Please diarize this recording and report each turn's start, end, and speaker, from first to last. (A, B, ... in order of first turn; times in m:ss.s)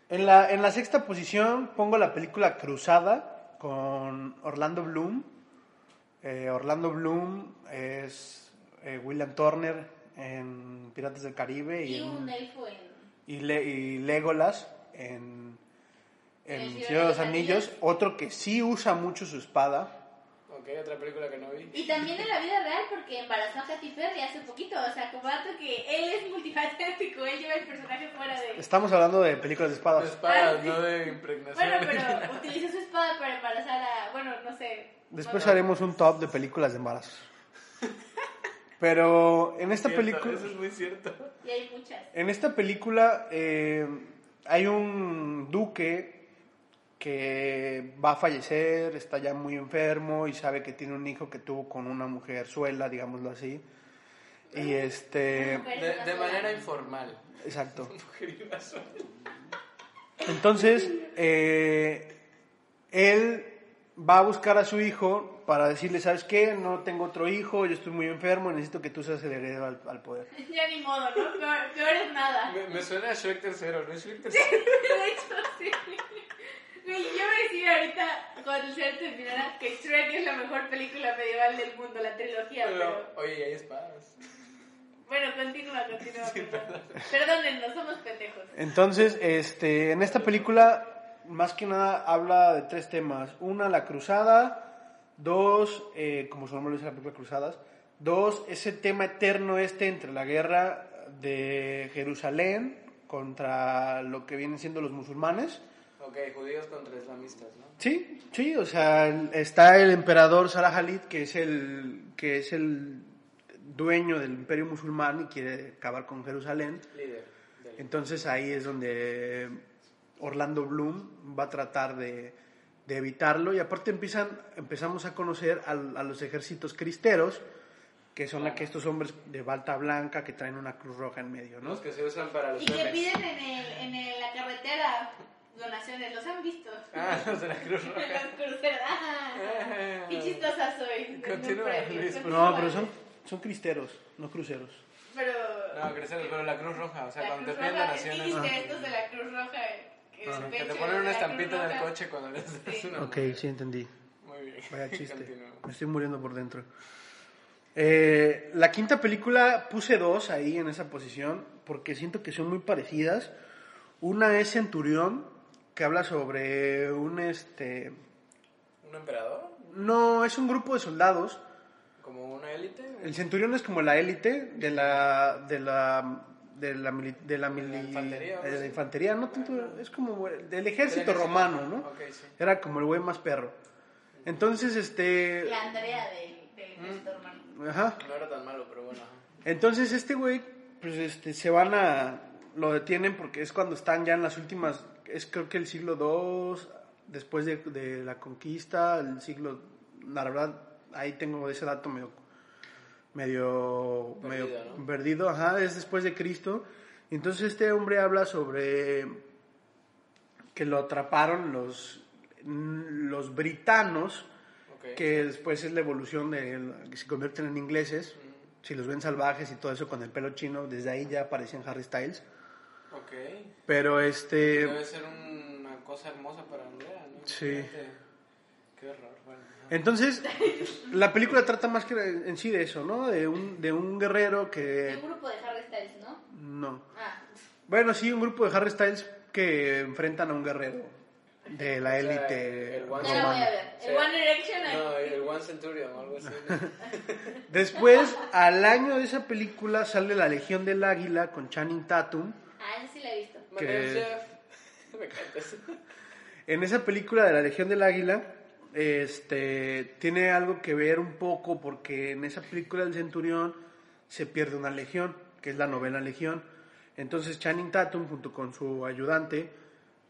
0:00.1-0:05.3 A
0:06.2-0:12.3 A
0:11.8-0:13.1 B
0:13.3-0:15.6 A
0:16.4-0:19.9 A
0:16.5-0:17.7 B
0:20.5-0:21.8 C
0:21.7-0:28.7 B
0:28.6-0:30.2 A
0:29.9-0:32.5 C
0:30.2-0:35.7 B
0:35.1-0:37.3 A
0:35.3-0:35.7 C
0:38.8-0:40.5 A
0:39.8-0:41.3 C
0:41.4-0:42.1 B
0:42.1-0:46.3 A
0:47.0-0:53.6 A
0:54.5-0:55.7 A
0:55.3-0:56.5 B
0:55.7-0:59.1 C
0:57.4-0:57.9 A
1:00.2-1:02.2 A
1:02.9-1:10.3 A
1:10.3-1:12.6 B
1:12.5-1:15.0 C
1:14.3-1:16.2 B
1:16.8-1:23.1 B
1:22.6-1:24.2 C
1:25.1-1:28.5 B
1:26.1-1:27.0 C
1:28.5-1:45.6 A
1:30.0-1:30.7 C
1:46.0-1:47.8 C
1:47.8-1:56.9 A
1:56.9-1:58.0 C
1:57.8-1:59.6 A
2:00.2-2:07.4 A
2:08.2-2:11.8 A
2:08.4-2:08.7 C
2:11.6-2:13.2 C
2:12.6-2:22.9 B
2:16.9-2:18.3 C
2:19.4-2:20.5 C
2:21.1-2:22.8 C
2:22.2-2:24.8 A
2:25.1-2:26.3 B
2:25.7-2:28.9 C
2:27.2-2:31.9 B
2:28.3-2:28.6 A
2:30.2-2:30.5 A
2:30.3-2:33.4 C
2:32.6-2:32.9 B
2:33.0-2:33.9 A
2:34.2-2:35.6 C
2:34.7-2:36.7 A
2:37.8-2:43.3 A
2:44.0-2:48.0 A
2:48.8-2:49.7 C
2:49.7-2:51.4 A
2:52.0-2:53.2 C
2:53.0-3:03.6 A
2:54.7-2:55.0 C
2:57.5-2:59.8 C
3:00.9-3:02.4 C
3:04.2-3:05.6 A
3:05.4-3:07.4 B
3:06.8-3:07.0 C
3:07.5-3:08.0 A
3:08.0-3:09.2 C
3:09.4-3:22.2 A
3:23.1-3:29.2 A
3:24.2-3:24.8 C
3:30.6-3:34.3 A
3:34.7-3:35.2 C
3:35.0-3:42.2 A
3:38.2-3:38.5 C
3:42.9-3:43.5 C
3:43.7-3:44.8 A
3:44.4-3:48.0 C
3:47.2-3:47.7 A
3:48.8-3:49.8 C
3:49.7-3:55.0 A
3:50.2-3:51.0 B
3:54.8-3:56.2 B
3:56.3-3:56.9 A
3:56.9-3:57.2 B
3:57.7-4:03.5 A
4:01.7-4:07.4 C
4:03.0-4:05.3 B
4:07.5-4:12.4 A
4:12.6-4:13.5 B
4:13.5-4:14.4 C
4:13.5-4:14.1 A
4:14.9-4:15.8 C
4:16.5-4:29.5 A